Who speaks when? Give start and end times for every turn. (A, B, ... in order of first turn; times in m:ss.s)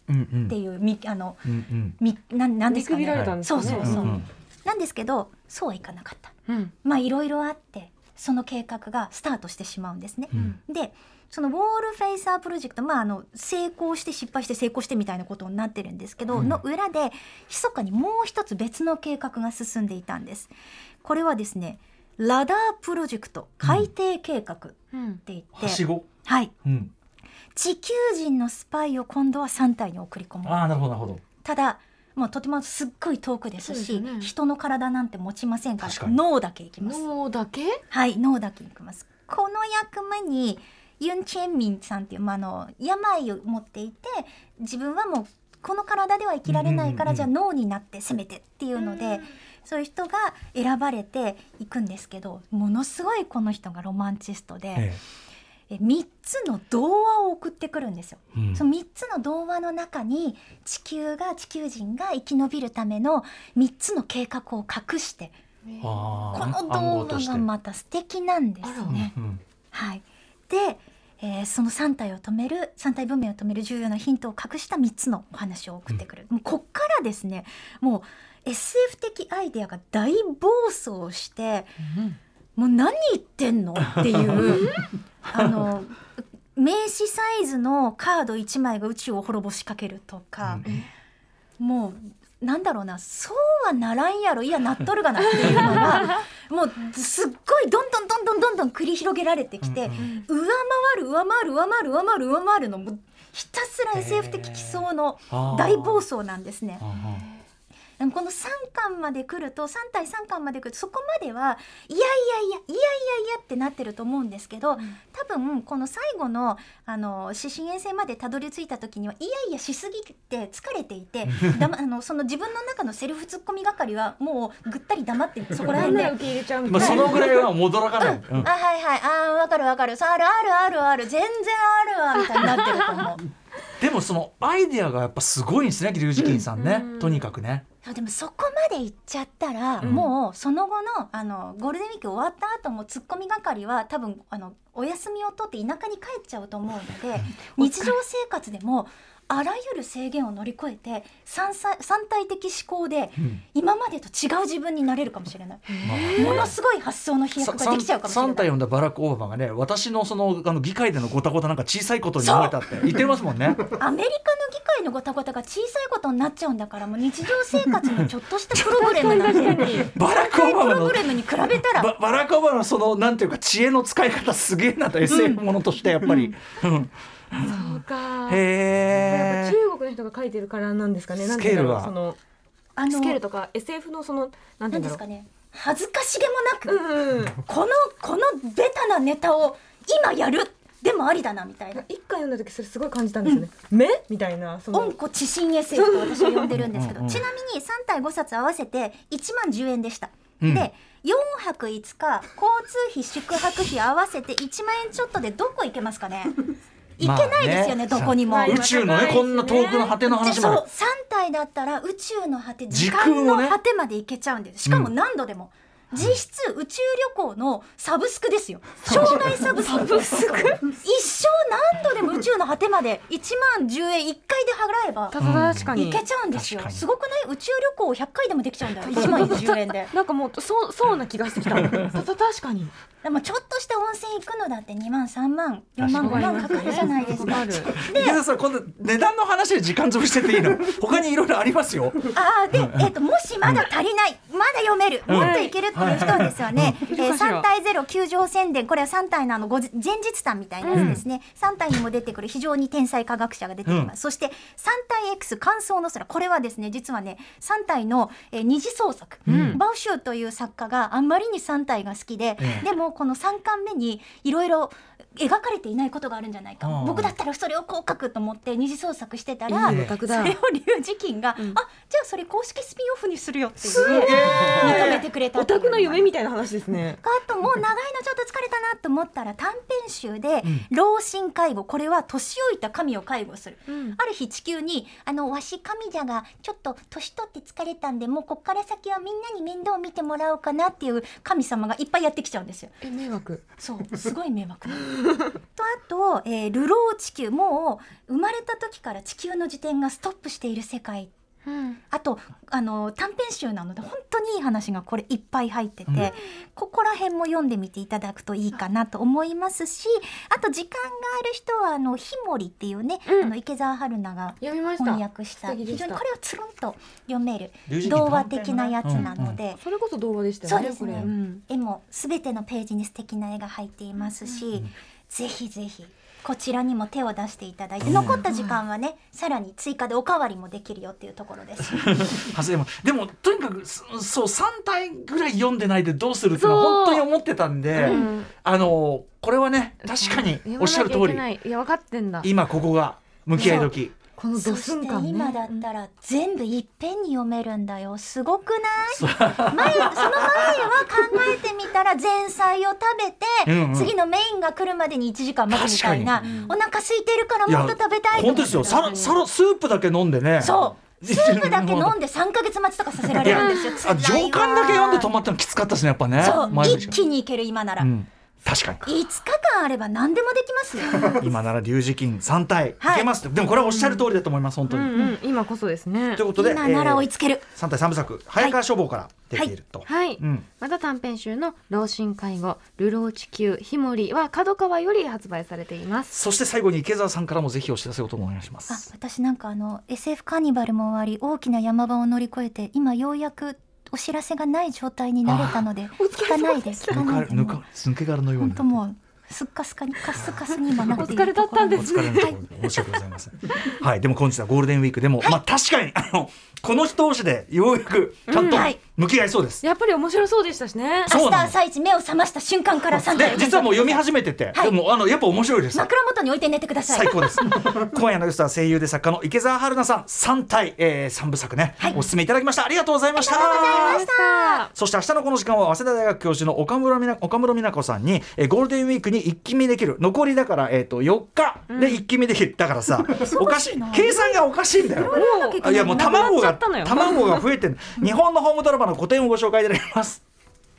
0:00.1-0:00.6 A
0:00.5-0:01.5 B
0:01.4-0:02.0 A
0:02.0-0:20.5 B
0:02.7-0:04.2 C
0:03.1-0:04.3 A
0:06.5-0:06.7 C
0:10.3-0:10.6 A
0:16.3-0:16.6 A
0:21.0-0:26.5 B
0:23.6-0:23.9 A
0:24.9-0:25.2 C
0:25.6-0:26.1 A
0:26.6-0:26.9 A
0:27.6-0:30.6 B
0:30.4-0:31.2 A
0:31.4-0:37.0 B
0:33.6-0:34.3 C
0:35.8-0:36.2 A
0:36.8-0:37.8 C
0:37.9-0:54.9 B
0:46.5-0:47.3 A
0:55.7-1:05.4 B
0:58.3-0:58.6 A
1:05.7-1:05.9 C
1:05.8-1:07.5 A
1:06.3-1:09.1 B
1:08.6-1:09.0 C
1:08.9-1:09.4 A
1:09.7-1:21.8 B
1:22.6-1:26.0 B
1:23.8-1:24.7 A
1:24.5-1:24.8 C
1:25.3-1:25.6 A
1:26.6-1:30.7 B
1:30.4-1:30.8 A
1:31.6-1:46.8 B
1:35.4-1:36.2 C
1:35.4-1:35.8 A
1:39.6-1:40.1 A
1:40.0-1:40.2 C
1:43.9-1:46.0 A
1:46.8-1:47.3 A
1:46.9-1:47.3 C
1:48.0-2:06.2 B
2:01.3-2:01.7 A
2:05.6-2:07.4 C
2:06.6-2:08.5 A
2:06.8-2:07.4 B
2:08.0-2:13.2 B
2:12.4-2:13.0 C
2:13.8-2:17.6 A
2:16.2-2:16.4 B
2:16.6-2:17.3 C
2:17.8-2:38.5 B
2:19.8-2:20.1 A
2:35.7-2:36.5 C
2:35.8-2:36.6 A
2:37.4-2:43.6 A
2:42.2-2:42.6 B
2:43.8-2:51.9 B
2:48.5-2:59.6 A
2:48.7-2:49.9 C
2:55.1-2:55.4 B
2:56.0-2:56.3 B
2:57.4-2:58.4 C
2:59.0-3:02.2 C
3:01.2-3:01.9 A
3:02.8-3:03.2 B
3:02.9-3:05.0 C
3:04.7-3:11.8 B
3:06.7-3:07.4 C
3:11.7-3:15.0 C
3:14.7-3:26.4 B
3:15.7-3:16.5 C
3:16.5-3:17.3 A
3:20.4-3:20.7 A
3:27.0-3:49.9 B
3:27.0-3:30.7 A
3:28.2-3:30.0 C
3:32.7-3:33.6 A
3:34.6-3:34.9 A
3:38.8-3:39.2 A
3:38.9-3:40.7 C
3:45.1-3:46.0 C
3:45.2-3:45.8 A
3:46.3-3:46.8 A
3:48.8-3:52.7 C
3:49.0-3:49.3 A
3:53.0-3:58.2 B
3:55.8-3:56.7 A
3:56.0-3:57.8 C
3:57.3-4:02.0 A
4:02.1-4:36.1 B
4:02.5-4:02.9 A
4:05.1-4:06.8 A
4:05.1-4:05.6 C
4:06.9-4:07.5 C
4:10.6-4:11.0 C
4:10.7-4:11.0 A
4:13.7-4:13.9 A
4:19.3-4:19.6 A
4:19.3-4:19.6 C
4:22.4-4:22.7 A
4:26.6-4:27.1 A
4:29.5-4:30.4 C
4:29.6-4:30.0 A
4:33.7-4:35.0 A
4:33.7-4:37.0 C
4:37.0-4:52.7 B
4:43.7-4:44.0 C
4:52.8-4:53.4 C
4:53.6-5:01.1 B
5:01.5-5:01.8 C
5:01.9-5:19.6 B
5:05.9-5:06.1 A
5:13.1-5:13.3 C
5:14.4-5:16.0 C
5:17.7-5:19.4 A
5:18.8-5:21.4 C
5:20.4-5:32.2 B
5:27.8-5:28.3 A
5:28.2-5:28.6 C
5:31.6-5:41.2 A
5:36.4-5:37.0 C
5:37.8-5:38.1 B
5:37.8-5:38.3 C
5:39.8-5:42.3 C
5:42.2-5:43.9 A
5:43.4-5:45.6 C
5:44.4-5:58.9 B
5:48.9-5:50.7 A
5:53.4-5:53.9 A
5:55.5-5:56.4 A
5:56.2-5:56.5 C
5:57.5-6:02.0 A
5:58.4-5:59.2 C
6:00.4-6:05.1 B
6:03.2-6:03.8 C
6:03.2-6:07.0 A
6:06.2-6:07.9 B
6:06.2-6:07.0 C
6:07.8-6:08.9 A
6:08.8-6:11.2 B
6:11.0-6:15.0 A
6:12.8-6:13.1 B
6:13.7-6:14.0 C
6:14.7-6:16.3 C
6:16.2-6:20.5 A
6:16.4-6:17.5 B
6:19.9-6:26.1 C
6:26.1-6:28.8 A
6:28.7-6:37.6 B
6:35.2-6:35.7 A
6:36.0-6:37.1 C
6:36.9-6:38.8 A
6:38.4-6:42.3 B
6:40.8-6:43.0 C
6:41.7-6:49.6 A
6:48.3-6:48.7 C
6:48.4-6:48.8 B
6:49.6-6:51.1 C
6:51.1-6:51.6 A
6:51.1-6:54.8 B
6:52.9-6:55.9 A
6:55.7-6:57.5 B
6:56.9-7:04.1 A
7:03.2-7:04.7 B
7:03.3-7:04.7 C
7:04.7-7:20.2 A
7:11.7-7:12.0 C
7:13.2-7:16.3 B
7:15.0-7:17.4 C